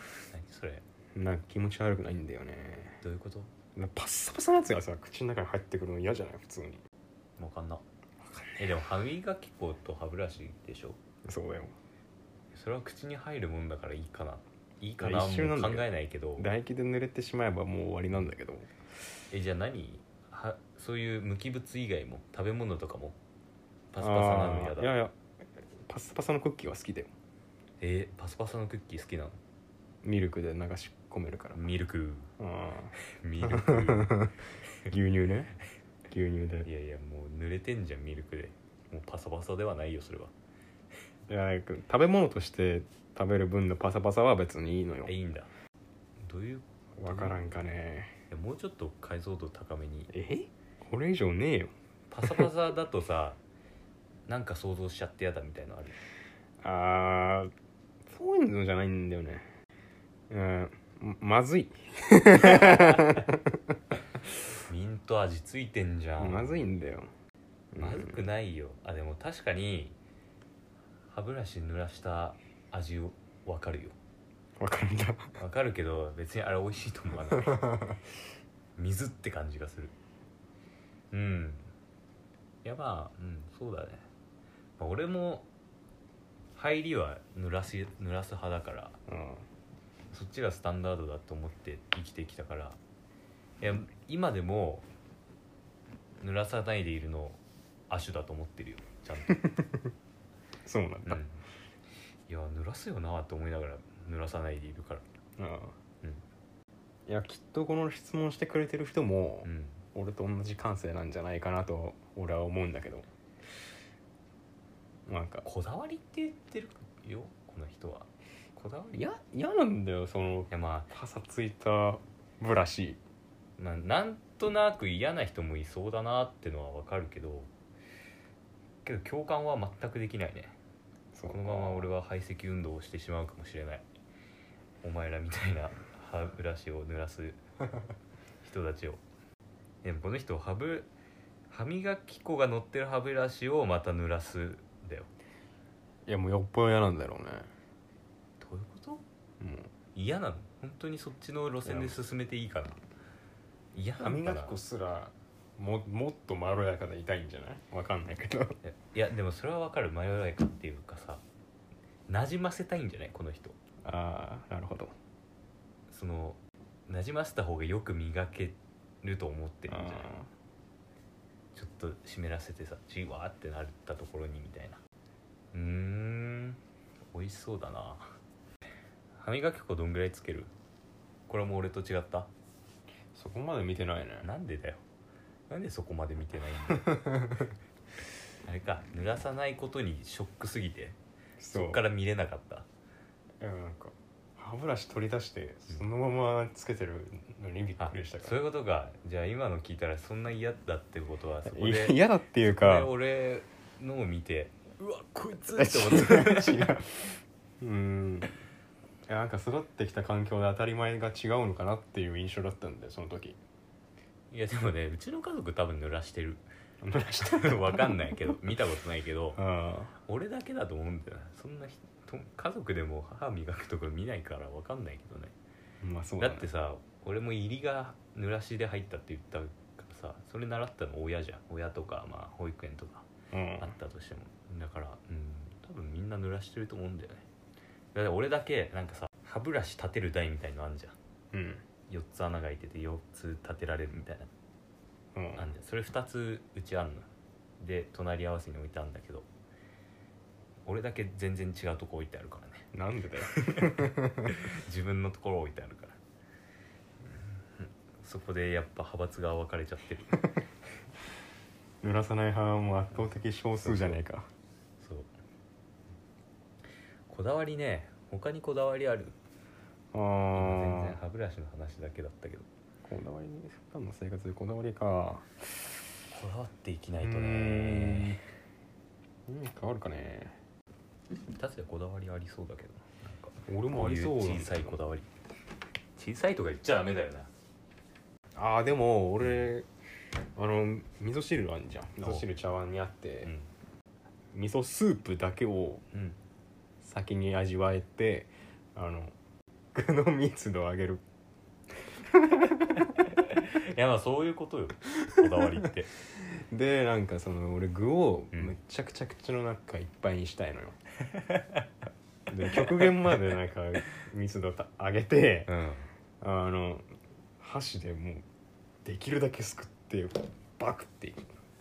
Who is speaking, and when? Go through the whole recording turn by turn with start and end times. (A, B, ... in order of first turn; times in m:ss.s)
0:00.3-0:00.8 A
0:01.1-0:03.0 B
0:03.0-0:03.5 A
0:03.8-0:06.8 B
0:07.4-0:07.8 A
0:08.2-0:08.6 B
0:08.6-0:11.0 A
0:11.2-0:11.8 B
0:12.5-0:16.5 A
0:15.0-0:18.7 B
0:19.3-0:23.2 A
0:23.9-0:24.9 A
0:24.0-0:25.2 B
0:25.8-0:27.1 B
0:27.8-0:29.4 A
0:30.0-0:31.6 B
0:31.5-0:32.3 A
0:32.4-0:34.4 B
0:33.1-0:34.2 A
0:34.9-0:35.5 B
0:36.1-0:36.7 B
0:36.6-0:40.3 A
0:41.3-0:45.1 B
0:45.0-0:45.5 A
0:46.2-0:47.6 A
0:47.0-0:48.1 B
0:48.3-0:50.1 A
0:50.1-0:52.5 B
0:52.1-0:53.4 A
0:54.3-0:56.0 A
0:56.6-0:57.5 B
0:58.1-0:59.5 B
1:00.3-1:03.8 B
1:04.7-1:06.6 A
1:06.2-1:07.1 B
1:07.7-1:08.2 B
1:07.8-1:10.0 A
1:11.1-1:14.0 A
1:14.6-1:15.3 B
1:15.4-1:17.7 A
1:17.3-1:18.0 B
1:18.8-1:19.9 A
1:21.1-1:21.7 A
1:22.6-1:24.0 A
1:24.8-1:25.4 A
1:26.5-1:29.0 A
1:29.1-1:29.4 B
1:30.1-1:32.8 A
1:33.6-1:34.8 A
1:36.2-1:39.4 A
1:39.3-1:39.9 B
1:40.6-1:41.2 B
1:41.0-1:41.4 A
1:42.3-1:45.0 A
1:45.4-1:45.8 B
1:47.1-1:53.1 B
1:49.4-1:49.8 A
1:55.1-1:55.4 B
1:55.4-1:59.0 A
1:58.9-2:03.0 B
2:00.5-2:00.9 A
2:03.6-2:07.5 A
2:08.8-2:10.6 A
2:11.1-2:11.9 B
2:11.2-2:13.8 A
2:14.8-2:17.4 A
2:18.4-2:19.0 A
2:19.8-2:20.9 A
2:21.5-2:25.1 A
2:26.1-2:27.5 B
2:28.4-2:29.0 A
2:29.4-2:29.7 B
2:29.9-2:32.8 A
2:31.6-2:32.0 B
2:33.7-2:34.5 A
2:34.0-2:38.6 B
2:38.6-2:41.2 A
2:42.1-2:43.6 A
2:43.8-2:44.9 B
2:45.9-2:50.1 A
2:49.7-2:50.3 B
2:51.5-2:54.8 A
2:55.5-2:56.6 A
2:57.1-2:58.1 A
2:59.2-3:00.5 A
3:01.3-3:02.3 A
3:03.1-3:04.3 B
3:04.2-3:04.8 A
3:05.5-3:07.4 A
3:06.6-3:07.5 B
3:08.4-3:11.0 A
3:11.4-3:11.8 B
3:11.5-3:12.6 A
3:13.4-3:18.3 B
3:17.8-3:26.8 A
3:21.4-3:22.9 B
3:25.6-3:28.4 B
3:29.1-3:33.4 B
3:34.3-3:36.4 A
3:36.8-3:38.3 B
3:37.2-3:39.4 A
3:39.4-3:39.9 B
3:40.1-3:45.3 A
3:45.8-3:46.5 B
3:46.2-3:57.2 A
3:53.3-3:53.8 B
3:57.9-4:01.0 A
4:01.3-4:01.6 B
4:01.9-4:04.3 A
4:05.1-4:05.5 B
4:05.4-4:07.1 A
4:07.6-4:09.3 A
4:10.7-4:12.7 A
4:12.7-4:14.4 B
4:13.4-4:16.0 A
4:17.1-4:20.2 A
4:21.8-4:24.3 B
4:23.6-4:24.0 A
4:24.8-4:25.1 A
4:27.1-4:29.2 A
4:29.9-4:31.0 B
4:30.3-4:32.5 A
4:32.9-4:35.3 B
4:36.1-4:38.2 A
4:37.0-4:38.2 B
4:39.3-4:40.4 B
4:41.4-4:45.1 A
4:43.5-4:44.8 B
4:46.0-4:47.3 A
4:48.4-4:49.7 B
4:49.2-4:49.5 A
4:50.4-4:53.3 B
4:52.0-4:52.2 A
4:53.2-4:53.5 A
4:54.3-4:55.8 B
4:55.9-4:56.2 A
4:56.8-4:59.1 B
4:59.7-5:01.0 B
5:02.0-5:02.9 B
5:03.0-5:05.9 A
5:06.1-5:10.8 B
5:11.1-5:11.6 A
5:12.3-5:15.5 B
5:15.5-5:15.9 A
5:16.2-5:16.9 B
5:17.4-5:18.2 B
5:18.8-5:21.3 B